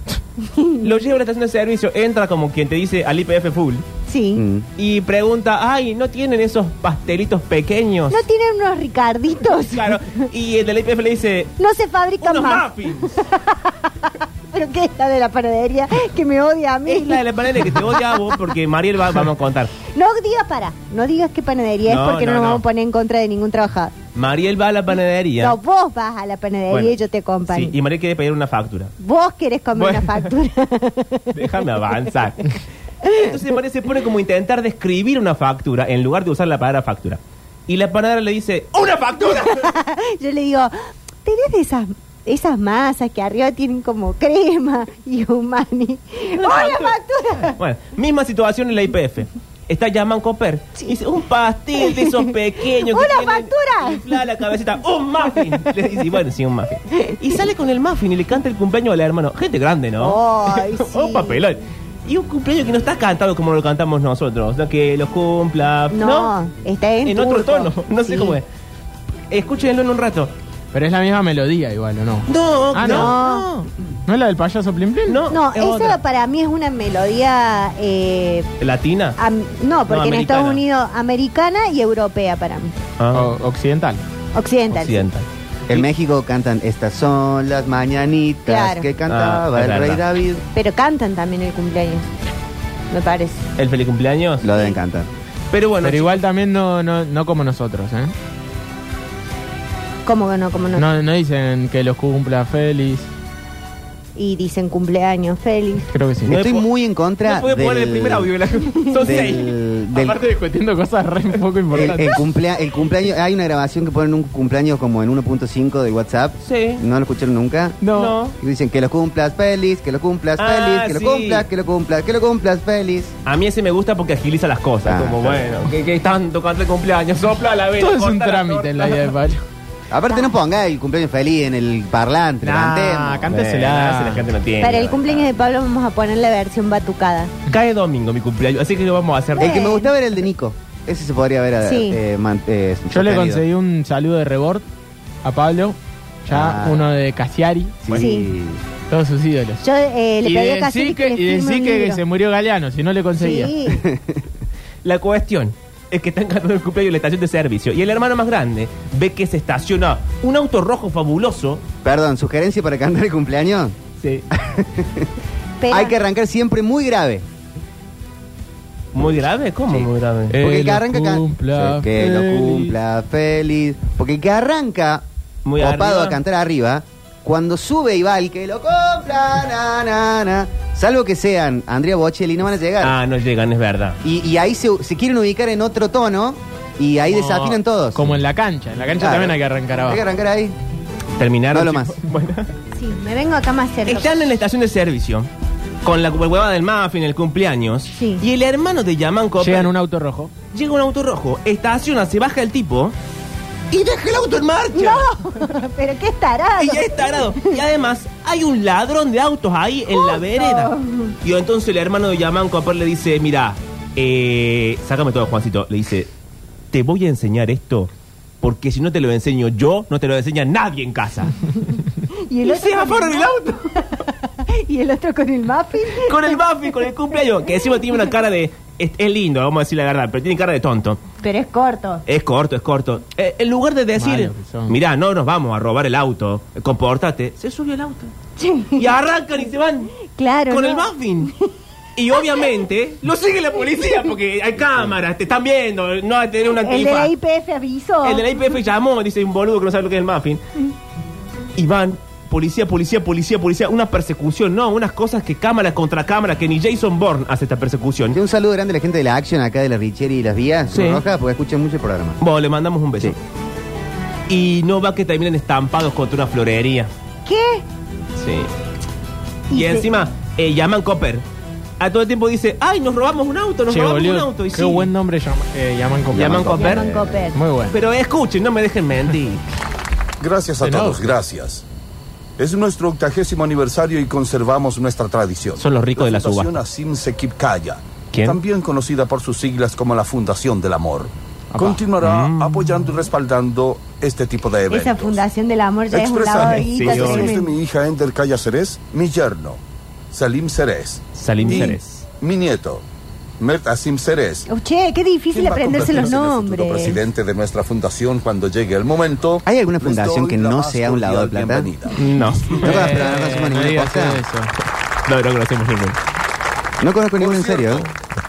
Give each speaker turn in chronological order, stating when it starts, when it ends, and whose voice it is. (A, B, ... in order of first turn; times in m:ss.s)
0:00.4-0:00.8 A
0:00.8-0:03.8 B
0:04.1-0:04.4 A
0:04.4-0:04.7 C
0:04.8-0:08.2 B
0:08.1-0:10.0 A
0:09.6-0:11.5 B
0:11.6-0:17.2 A
0:12.2-0:13.2 B
0:16.9-0:19.7 B
0:17.9-0:18.3 A
0:19.8-0:24.0 A
0:21.9-0:22.6 B
0:24.2-0:25.6 B
0:25.4-0:27.8 A
0:26.7-0:27.0 B
0:27.5-0:28.9 B
0:29.0-0:31.6 A
0:29.8-0:30.3 B
0:31.3-0:39.7 B
0:39.3-0:40.7 A
0:41.2-0:47.6 A
0:46.4-0:47.0 B
0:47.5-1:06.3 B
0:51.8-0:52.2 A
0:52.7-0:54.0 A
1:00.0-1:01.4 A
1:05.9-1:08.4 A
1:07.0-1:08.4 B
1:09.3-1:10.3 B
1:10.7-1:13.2 D
1:12.3-1:13.7 B
1:12.8-1:13.5 A
1:14.1-1:15.2 D
1:15.1-1:16.0 B
1:15.3-1:18.5 A
1:18.6-1:19.2 B
1:19.2-1:22.8 A
1:19.9-1:20.6 B
1:23.0-1:23.3 B
1:23.1-1:24.0 D
1:24.4-1:25.0 A
1:24.7-1:25.9 B
1:25.7-1:30.4 C
1:28.5-1:28.9 A
1:29.1-1:30.0 B
1:30.5-1:32.1 A
1:32.9-1:33.4 A
1:33.6-1:34.5 B
1:34.4-1:35.1 C
1:35.5-1:36.2 B
1:35.8-1:38.1 D
1:40.0-1:40.9 A
1:40.8-1:43.1 D
1:44.2-1:45.9 A
1:45.9-1:46.4 D
1:46.3-1:46.7 B
1:46.3-1:48.3 C
1:47.2-1:49.5 B
1:49.0-1:50.2 C
1:49.9-1:52.2 D
1:51.7-1:57.8 C
1:56.4-1:56.8 B
1:57.8-1:58.2 D
1:57.9-1:58.4 B
1:58.4-2:03.1 C
2:00.4-2:01.5 B
2:03.3-2:09.1 B
2:04.8-2:05.5 C
2:07.8-2:09.4 D
2:09.9-2:13.3 C
2:12.4-2:14.2 D
2:13.3-2:15.3 B
2:14.6-2:17.3 A
2:17.5-2:19.6 B
2:19.4-2:19.9 A
2:19.4-2:23.4 C
2:21.6-2:22.0 A
2:22.9-2:24.6 D
2:25.2-2:27.9 D
2:26.3-2:26.9 C
2:27.8-2:28.6 C
2:28.0-2:28.3 A
2:28.9-2:29.6 D
2:29.6-2:32.0 A
2:30.2-2:33.5 D
2:33.2-2:33.8 A
2:33.7-2:34.2 C
2:34.8-2:41.6 B
2:41.8-2:43.8 C
2:44.4-2:45.1 C
2:45.6-2:46.0 A
2:45.7-2:47.2 C
2:48.9-2:50.4 B
2:49.7-2:55.0 C
2:50.3-2:52.7 D
2:55.4-2:56.2 B
2:55.6-3:03.0 C
3:02.8-3:04.0 B
3:04.0-3:08.1 C
3:07.1-3:10.0 D
3:09.0-3:10.6 C
3:11.2-3:12.5 B
3:11.5-3:12.0 C
3:12.8-3:14.3 A
3:13.9-3:15.3 B
3:15.8-3:19.7 B
3:18.0-3:18.2 A
3:19.4-3:20.3 D
3:20.5-3:23.0 B
3:23.7-3:25.1 B
3:24.7-3:27.5 A
3:26.6-3:30.7 B
3:29.9-3:31.1 A
3:31.2-3:36.1 B
3:36.7-3:41.3 B
3:42.3-3:46.4 A
3:42.4-3:43.6 B
3:46.0-3:51.0 B
3:51.2-3:52.0 A
3:52.1-3:58.1 B
3:54.0-3:54.8 D
3:58.4-3:59.0 A
3:58.8-4:01.3 B
4:00.0-4:01.5 A
4:02.0-4:07.1 B
4:02.1-4:02.4 A
4:06.6-4:08.3 A
4:08.0-4:10.4 B
4:11.6-4:18.2 B
4:18.1-4:22.2 C
4:20.7-4:21.0 B
4:22.2-4:23.2 B
4:24.3-4:26.9 B
4:27.3-4:27.6 A
4:28.2-4:28.5 B
4:29.5-4:29.9 A
4:29.5-4:31.2 B
4:31.8-4:34.9 B
4:33.7-4:36.6 D
4:36.1-4:36.9 B
4:36.2-4:37.2 C
4:36.6-4:37.4 A
4:37.3-4:37.8 D
4:37.7-4:39.4 B
4:40.2-4:41.6 E
4:40.6-4:41.0 D
4:42.4-4:55.2 E
4:45.6-4:46.6 B
4:48.1-4:48.4 B
4:51.5-4:51.8 D
4:52.0-4:52.9 B
4:54.7-4:57.6 A
4:55.9-4:59.6 E
4:56.4-4:57.4 B
5:00.1-5:02.8 E
5:01.2-5:02.0 B
5:03.4-5:04.5 E
5:04.5-5:07.0 A
5:05.3-5:12.0 E
5:09.4-5:11.7 C
5:12.0-5:12.9 B
5:12.6-5:14.2 C
5:12.6-5:14.5 D
5:15.1-5:16.0 B
5:16.8-5:17.9 C
5:17.2-5:17.7 E